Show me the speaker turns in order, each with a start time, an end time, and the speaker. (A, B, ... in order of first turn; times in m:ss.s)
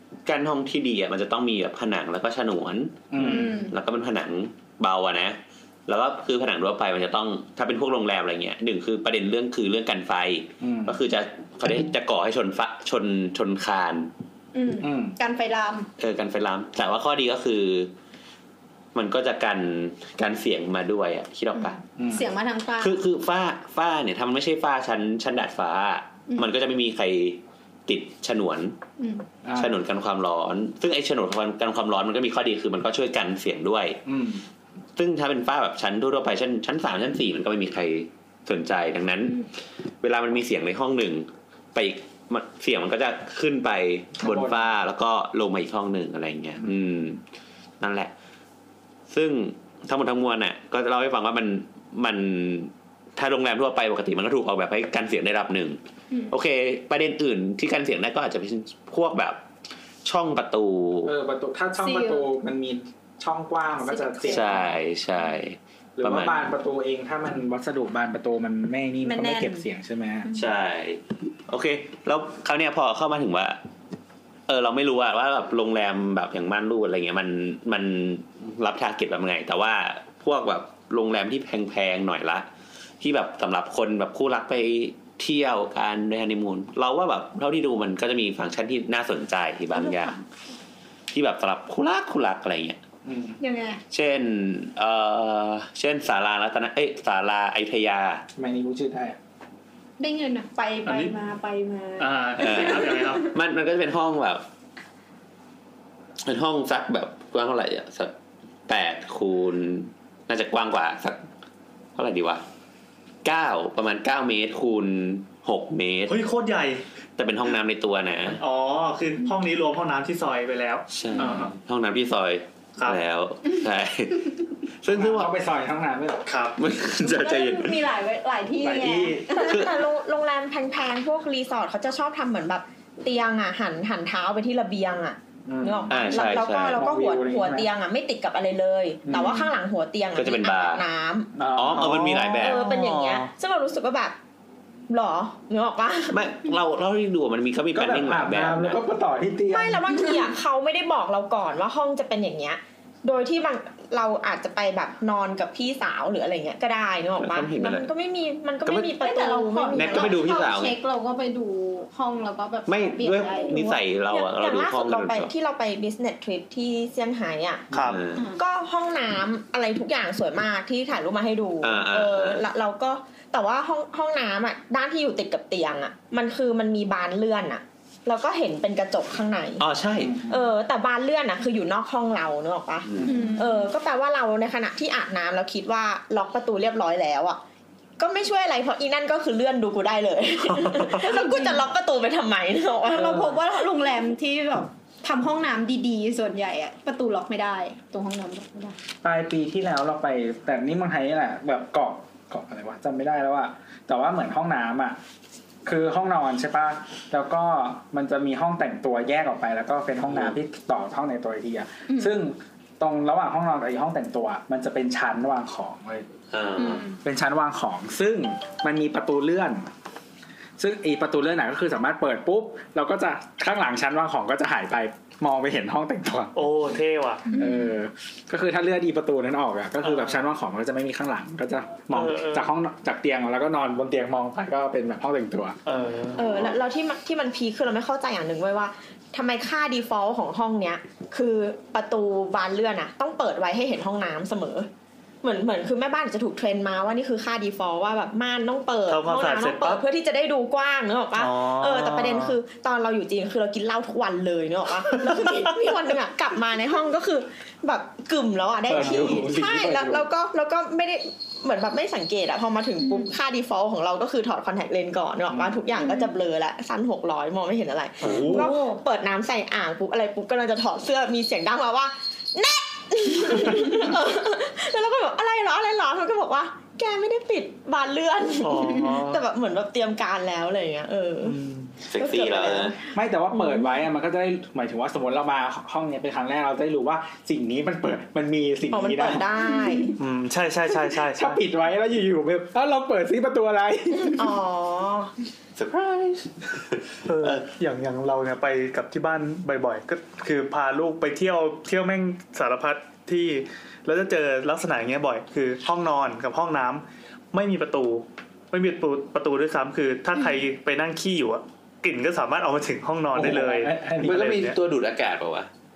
0:00.2-0:14.1 A
0:03.1-0:03.6 B
0:03.2-0:03.7 C
0:10.6-0:11.0 B
0:14.5-0:15.9 C
0:14.8-0:15.1 B
0:16.0-0:17.9 A
0:18.9-0:21.8 A
0:21.5-0:23.0 C
0:22.0-0:22.3 B
0:22.8-0:28.7 A
0:29.0-0:29.2 C
0:29.4-0:29.8 B
0:29.6-0:34.0 A
0:34.0-0:34.4 B
0:35.0-0:39.5 A
0:40.0-0:47.2 A
0:44.2-0:44.7 B
0:47.8-0:48.1 A
0:49.1-0:55.8 A
0:56.3-0:59.4 A
1:00.0-1:01.1 A
1:01.0-1:04.6 B
1:01.8-1:02.2 C
1:03.9-1:04.7 C
1:04.3-1:06.4 A
1:06.0-1:10.3 B
1:09.0-1:09.6 C
1:10.2-1:10.5 C
1:10.3-1:13.6 A
1:14.5-1:22.5 A
1:23.0-1:30.2 A
1:29.7-1:30.2 C
1:31.1-1:32.8 A
1:33.0-1:33.4 B
1:33.4-1:33.8 C
1:33.9-1:38.2 A
1:38.4-1:39.2 B
1:40.0-1:43.2 C
1:40.8-1:41.1 D
1:42.0-1:43.3 D
1:42.4-1:44.4 A
1:46.2-1:48.1 A
1:48.7-1:51.3 A
1:52.0-1:52.4 A
1:53.2-1:56.2 A
1:56.1-1:56.8 D
1:57.2-1:58.4 A
1:58.3-2:01.5 D
2:00.9-2:05.3 A
2:04.9-2:06.3 B
2:06.3-2:06.6 D
2:06.6-2:07.9 A
2:07.0-2:09.7 C
2:08.6-2:09.3 B
2:09.4-2:09.8 A
2:09.4-2:21.3 E
2:15.4-2:17.7 B
2:15.9-2:16.8 A
2:19.0-2:19.4 B
2:20.1-2:20.8 A
2:21.4-2:22.0 B
2:21.5-2:22.6 A
2:21.7-2:23.3 D
2:22.4-2:24.2 E
2:24.9-2:26.2 E
2:26.1-2:28.8 A
2:27.7-2:29.8 B
2:29.5-2:40.2 E
2:37.2-2:37.9 A
2:38.6-2:38.9 A
2:39.0-2:43.8 C
2:39.7-2:40.8 A
2:42.6-2:45.3 A
2:44.1-2:47.6 E
2:47.7-2:48.0 D
2:47.8-2:48.2 A
2:48.4-2:59.6 E
2:51.6-2:52.4 A
2:59.6-3:00.2 A
3:00.0-3:00.4 B
3:00.2-3:07.4 E
3:02.9-3:03.3 A
3:03.0-3:03.7 C
3:08.0-3:13.3 E
3:10.9-3:11.6 C
3:12.9-3:18.8 C
3:19.0-3:25.0 B
3:25.6-3:36.0 B
3:30.1-3:30.4 A
3:31.9-3:32.1 C
3:36.3-3:36.8 A
3:36.6-3:37.0 C
3:37.0-3:39.7 B
3:40.6-3:46.4 B
3:46.3-3:47.2 D
3:47.3-3:47.6 C
3:47.3-3:55.6 B
3:49.8-3:50.2 D
3:51.9-3:52.5 D
3:55.6-3:56.2 D
3:56.2-4:04.7 E
4:05.2-4:41.4 E
4:08.9-4:09.8 D
4:11.2-4:12.3 D
4:15.1-4:15.6 D
4:18.6-4:20.1 B
4:28.0-4:28.5 D
4:28.0-4:28.3 B
4:28.3-4:28.8 C
4:38.4-4:39.2 D
4:41.2-4:41.7 D
4:41.8-4:42.8 A
4:41.9-4:42.8 E
4:42.9-4:49.2 B
4:48.7-4:49.9 E
4:50.0-4:51.4 D
4:51.1-4:54.3 B
4:54.0-4:55.1 E
4:55.6-4:57.4 A
4:57.1-5:14.6 D
5:13.1-5:14.2 B
5:14.0-5:15.5 A